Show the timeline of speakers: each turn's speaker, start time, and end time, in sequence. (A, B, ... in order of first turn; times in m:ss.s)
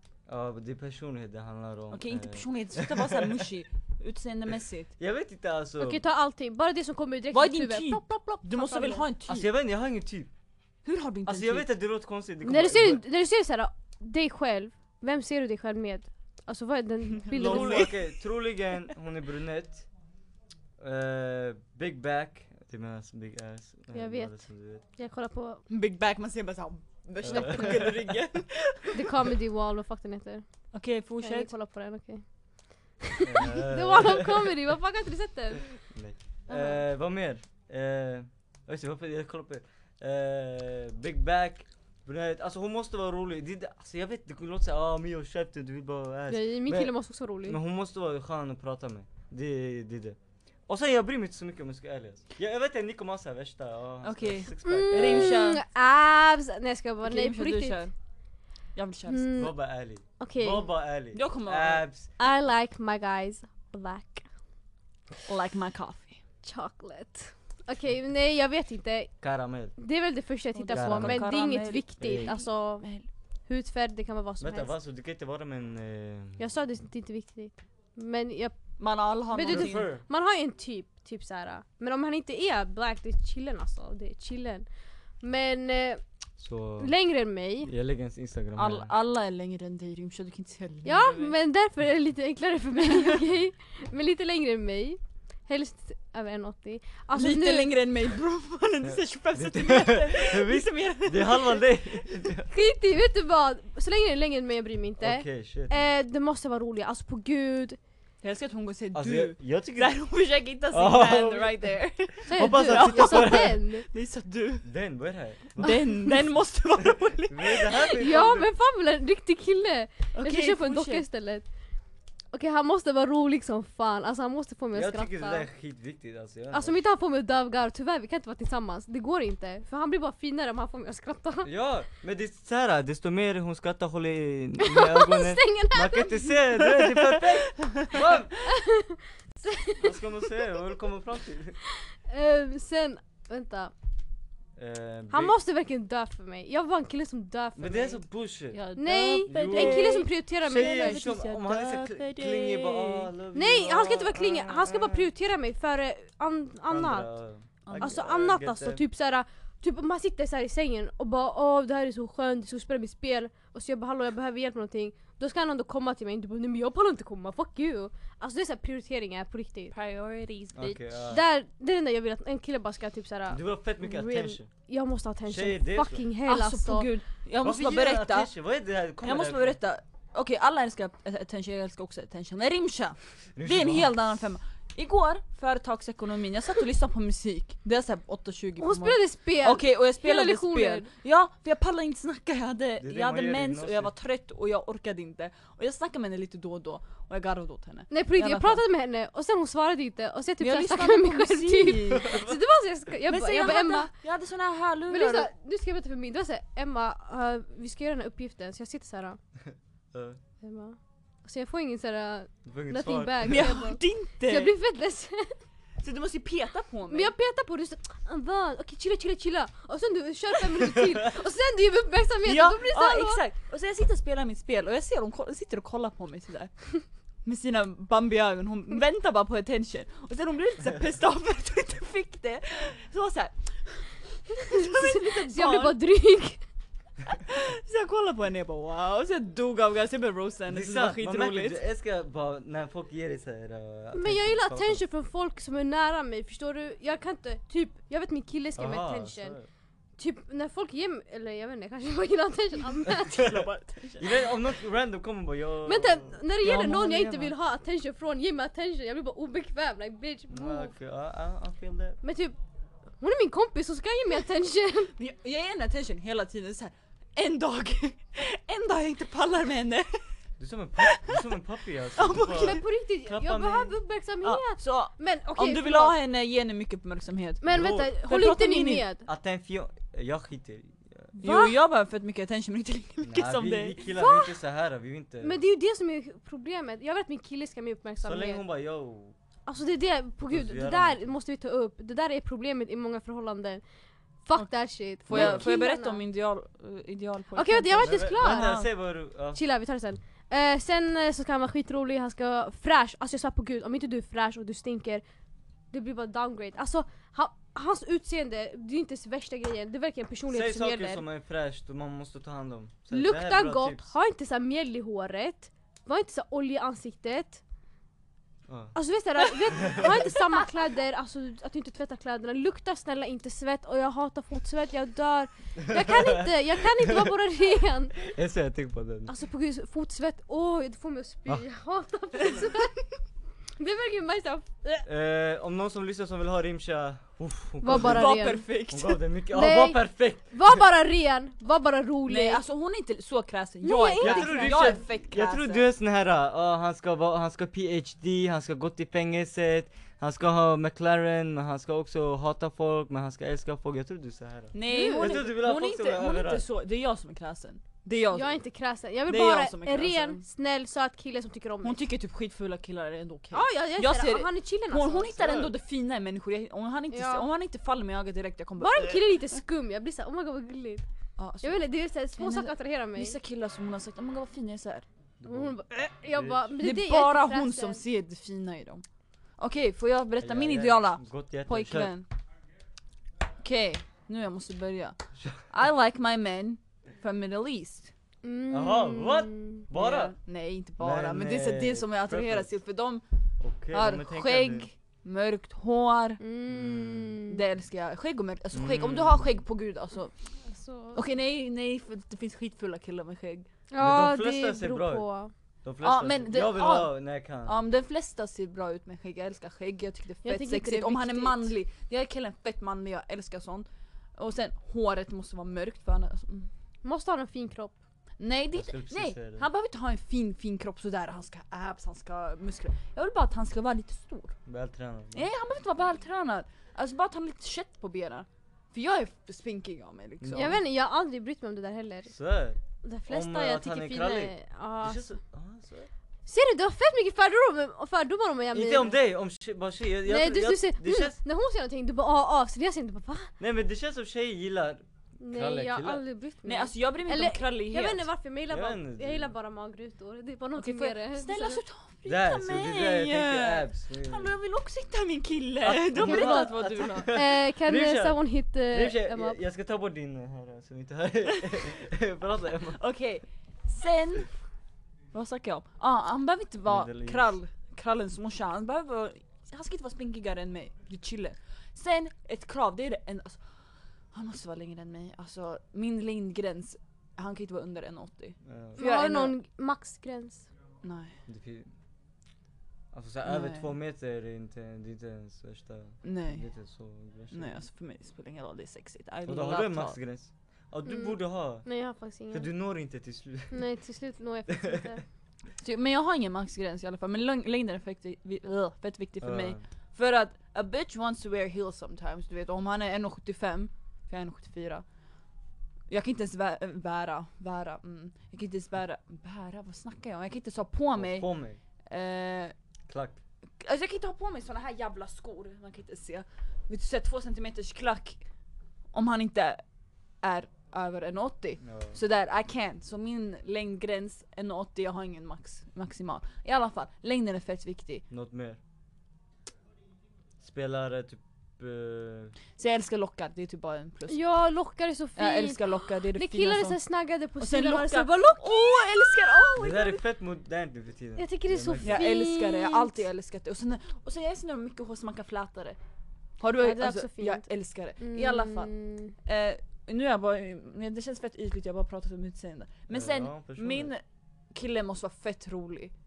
0:00.3-0:03.1 A
0:01.9-0:04.9 B
0:05.0-0:06.0 A
0:05.8-0:09.0 C
0:07.3-0:09.5 B
0:09.3-0:10.3 A
0:10.8-0:11.7 B
0:11.2-0:13.0 A
0:12.4-0:18.0 C
0:17.2-0:18.2 B
0:17.3-0:19.9 A
0:20.8-0:24.8 A
0:23.9-0:25.6 C
0:25.7-0:29.3 B
0:27.2-0:28.1 A
0:27.2-0:27.8 C
0:28.9-0:30.6 C
0:30.7-0:31.5 B
0:31.2-0:32.2 C
0:33.0-0:35.8 C
0:33.2-0:34.6 A
0:35.8-0:55.4 A
0:36.5-0:36.8 C
0:46.3-0:47.6 C
0:54.0-0:55.6 B
0:54.6-0:57.9 C
0:57.0-0:57.9 B
0:58.8-0:59.3 B
0:59.1-0:59.6 C
0:59.3-1:02.1 A
1:00.2-1:00.6 C
1:01.1-1:01.9 B
1:02.2-1:04.3 C
1:05.3-1:06.2 B
1:06.4-1:09.2 C
1:09.2-1:09.8 A
1:09.8-1:12.9 C
1:10.6-1:13.1 B
1:10.8-1:11.3 A
1:12.0-1:12.3 A
1:13.5-1:14.7 C
1:14.4-1:16.4 A
1:16.4-1:18.7 C
1:18.8-1:19.9 B
1:19.3-1:24.7 C
1:19.5-1:20.0 A
1:25.2-1:26.0 C
1:26.4-1:26.9 A
1:26.8-1:27.7 C
1:27.6-1:28.9 A
1:28.6-1:31.3 B
1:30.8-1:37.7 C
1:37.1-1:42.1 B
1:38.8-1:42.5 A
1:42.5-1:47.8 C
1:45.0-1:45.8 A
1:48.2-1:54.7 B
1:48.9-1:50.0 A
1:50.7-1:51.6 A
1:52.3-1:53.9 C
1:52.3-1:53.6 A
1:54.6-1:55.8 A
1:55.6-1:58.0 B
1:57.3-1:58.5 A
1:57.8-2:01.5 C
2:00.1-2:01.0 B
2:02.3-2:05.5 C
2:04.7-2:06.8 A
2:06.5-2:11.5 C
2:11.4-2:18.4 A
2:14.6-2:16.4 C
2:17.6-2:17.9 B
2:18.4-2:20.5 C
2:19.8-2:21.6 A
2:21.7-2:23.7 C
2:24.6-2:25.3 A
2:25.1-2:28.0 C
2:27.6-2:28.7 A
2:28.5-2:33.1 B
2:28.8-2:31.2 C
2:29.3-2:35.1 A
2:33.3-2:37.1 C
2:36.7-2:38.8 A
2:37.6-2:38.0 B
2:37.8-2:49.8 C
2:49.7-2:50.8 B
2:50.5-2:51.2 A
2:51.1-2:56.9 C
2:53.3-2:54.5 A
2:55.3-2:56.0 A
2:56.3-2:58.3 B
2:57.4-2:59.6 A
2:59.0-3:18.6 B
3:03.4-3:04.2 A
3:08.6-3:10.9 C
3:12.8-3:13.9 A
3:17.9-3:23.9 C
3:20.4-3:22.2 B
3:22.0-3:22.4 A
3:23.1-3:25.3 B
3:24.9-3:29.2 C
3:29.9-3:30.2 A
3:30.4-3:35.4 C
3:32.5-3:33.5 A
3:33.2-3:34.5 B
3:35.8-3:37.1 B
3:36.9-3:43.2 C
3:40.6-3:41.1 A
3:42.2-3:46.7 B
3:47.2-3:55.8 B
3:54.5-3:56.4 C
3:57.1-4:01.6 B
4:00.5-4:04.8 A
4:04.0-4:09.4 C
4:08.6-4:09.5 A
4:10.0-4:13.4 C
4:13.0-4:14.2 B
4:13.2-4:13.4 A
4:14.0-4:16.8 A
4:15.6-4:20.7 C
4:16.4-4:17.3 B
4:20.3-4:22.0 A
4:22.0-4:22.4 C
4:23.0-4:24.9 C
4:25.0-4:30.0 B
4:30.4-4:33.8 A
4:30.8-4:31.2 B
4:32.0-4:32.6 B
4:32.3-4:36.0 C
4:34.2-4:38.8 B
4:37.4-4:39.0 C
4:37.5-4:37.9 A
4:39.0-4:41.1 A
4:41.1-4:43.8 B
4:41.2-4:41.5 C
4:43.0-4:45.4 A
4:43.9-4:44.4 C
4:45.2-4:48.4 C
4:48.0-4:49.2 A
4:49.5-4:53.6 C
4:50.3-4:51.1 A
4:54.2-4:56.0 C
4:55.0-4:58.7 B
4:55.1-4:55.5 A
4:57.4-4:58.7 C
4:57.8-4:59.4 A
4:59.3-5:05.0 C
5:05.7-5:11.0 C
5:10.3-5:13.9 A
5:12.9-5:17.4 C
5:18.5-5:18.8 A
5:18.8-5:28.0 C
5:19.6-5:20.0 A
5:25.7-5:27.1 A
5:28.0-5:29.1 A
5:29.1-5:32.9 C
5:32.2-5:32.6 B
5:33.6-5:34.9 C
5:34.9-5:40.6 A
5:37.6-5:38.5 C
5:37.7-5:39.0 B
5:39.3-5:42.4 C
5:42.1-5:45.6 B
5:43.6-5:44.8 C
5:44.0-5:56.4 A
5:54.5-5:58.4 B
5:54.7-5:55.2 C
5:58.1-6:01.8 C
5:59.1-6:00.2 B
6:01.6-6:09.4 B
6:03.3-6:05.1 C
6:05.2-6:05.5 A
6:06.9-6:07.2 C
6:08.6-6:10.9 C
6:11.2-6:11.6 B
6:11.4-6:13.2 C
6:12.2-6:14.9 B
6:15.2-6:15.6 A
6:15.2-6:17.8 C
6:16.1-6:16.5 A
6:16.6-6:18.8 B
6:19.4-6:22.1 B
6:20.2-6:21.9 A
6:23.4-6:27.9 B
6:25.2-6:25.4 A
6:28.2-6:29.6 C
6:28.5-6:30.2 A
6:29.7-6:33.0 B
6:30.8-6:32.5 A
6:33.4-6:34.7 A
6:33.7-6:36.2 B
6:36.2-6:37.4 C
6:36.5-6:37.2 A
6:37.3-6:40.2 B
6:38.5-6:39.3 A
6:40.4-6:41.0 C
6:40.9-6:43.5 B
6:43.7-6:45.3 C
6:43.8-6:45.0 A
6:45.6-6:47.6 A
6:45.8-6:56.5 B
6:50.2-6:51.5 C
6:56.8-6:57.7 C
6:58.2-7:04.4 B
6:58.5-6:59.4 A
7:04.4-7:05.3 A
7:05.1-7:10.6 B
7:10.2-7:10.6 A
7:10.4-7:12.1 C
7:12.1-7:15.9 A
7:12.8-7:15.1 C
7:16.3-7:19.0 C
7:18.5-7:21.2 A
7:20.1-7:23.3 C
7:23.4-7:26.0 A
7:25.2-7:31.6 C
7:26.4-7:28.1 B
7:28.5-7:29.3 A
7:30.6-7:37.1 B
7:32.0-7:34.3 A
7:35.6-7:42.8 A
7:36.0-7:39.4 C
7:42.8-7:44.3 B
7:45.1-7:53.4 B
7:46.6-7:47.4 A
7:54.1-7:59.3 B
7:58.4-7:58.8 A
7:58.8-8:00.5 C
8:00.8-8:01.1 B
8:01.3-8:01.7 A
8:02.9-8:07.6 A
8:03.2-8:03.7 B
8:06.0-8:06.4 B
8:07.3-8:10.0 B
8:09.2-8:11.6 A
8:10.9-8:12.5 C
8:12.3-8:13.6 A
8:13.5-8:15.0 C
8:14.5-8:15.0 A
8:15.6-8:24.8 B
8:19.2-8:19.6 A
8:25.9-8:31.3 B
8:31.0-8:31.6 A
8:31.9-8:32.5 B
8:32.9-8:33.2 A
8:33.6-8:38.2 B
8:38.9-8:39.6 B
8:40.2-8:48.0 B
8:41.6-8:42.0 A
8:48.1-8:48.6 A
8:50.4-8:52.4 A
8:52.6-8:54.2 B
8:54.1-8:59.0 C
8:55.2-8:56.8 B
8:57.4-9:00.0 B
8:59.6-9:02.0 A
9:01.2-9:03.0 C
9:01.8-9:05.8 B
9:06.4-9:08.7 B
9:06.6-9:07.4 C
9:08.0-9:09.1 C
9:09.2-9:15.9 B
9:12.9-9:13.9 A